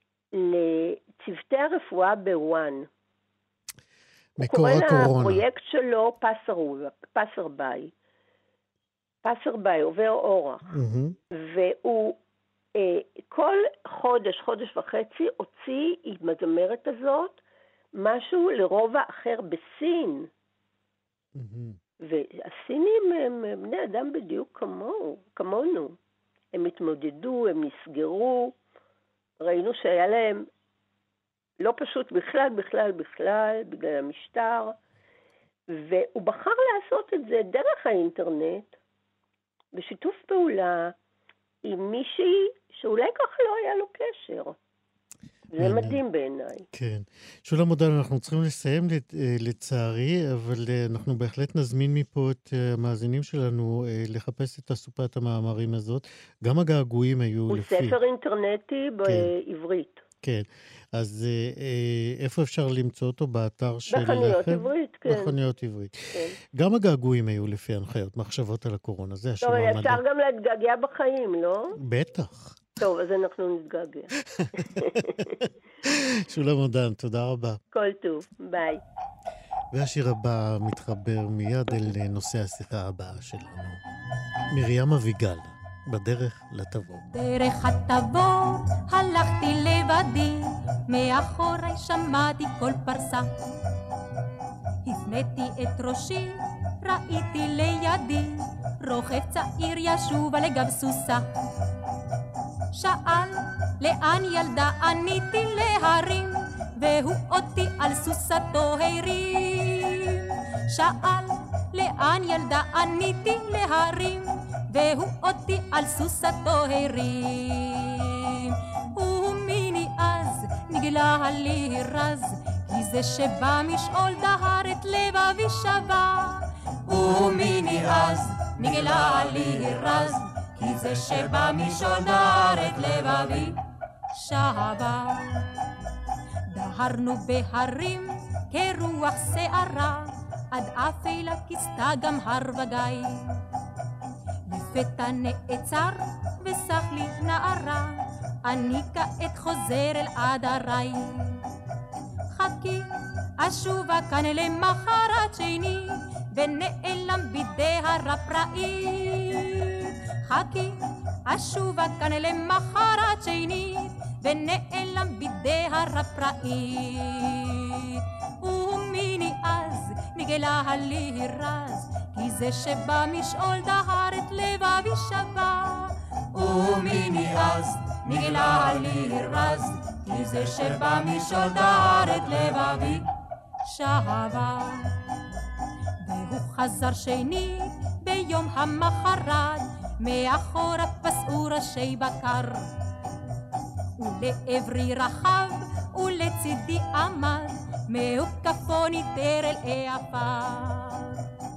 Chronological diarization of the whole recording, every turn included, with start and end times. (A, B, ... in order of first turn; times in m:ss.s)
0:00.3-0:02.9 A
0:04.4-0:05.4 B
0:04.4-0:07.9 A
0:09.2-0:10.7 A
0:10.7-0:11.2 B
0:11.3-0:12.2 A
0:12.8-0:17.4 A
0:18.0-0:20.3 A
0:21.4-0:21.8 B
0:22.0-0:26.0 A
0:26.5-0:28.6 A
0:29.4-0:30.5 A
0:31.6-0:34.8 A
0:35.7-0:38.8 A
0:39.7-0:41.0 A
0:41.6-0:44.6 A
0:45.5-0:46.7 A
0:45.6-0:46.0 B
0:46.7-0:58.0 B
0:57.5-1:00.0 A
1:00.2-1:05.9 B
1:03.9-1:05.4 A
1:06.4-1:10.0 B
1:09.4-1:11.8 A
1:11.8-1:12.8 B
1:12.8-1:15.4 A
1:14.4-1:15.3 B
1:15.8-1:17.6 B
1:17.7-1:18.8 A
1:19.7-1:23.8 B
1:24.5-1:27.0 B
1:27.1-1:33.3 C
1:34.8-1:41.3 C
1:42.7-2:13.6 C
2:14.1-2:15.6 C
2:16.5-2:23.4 C
2:24.5-2:31.4 C
2:32.3-3:03.1 C
3:03.6-3:05.0 C
3:06.0-3:12.7 C
3:14.0-3:21.3 C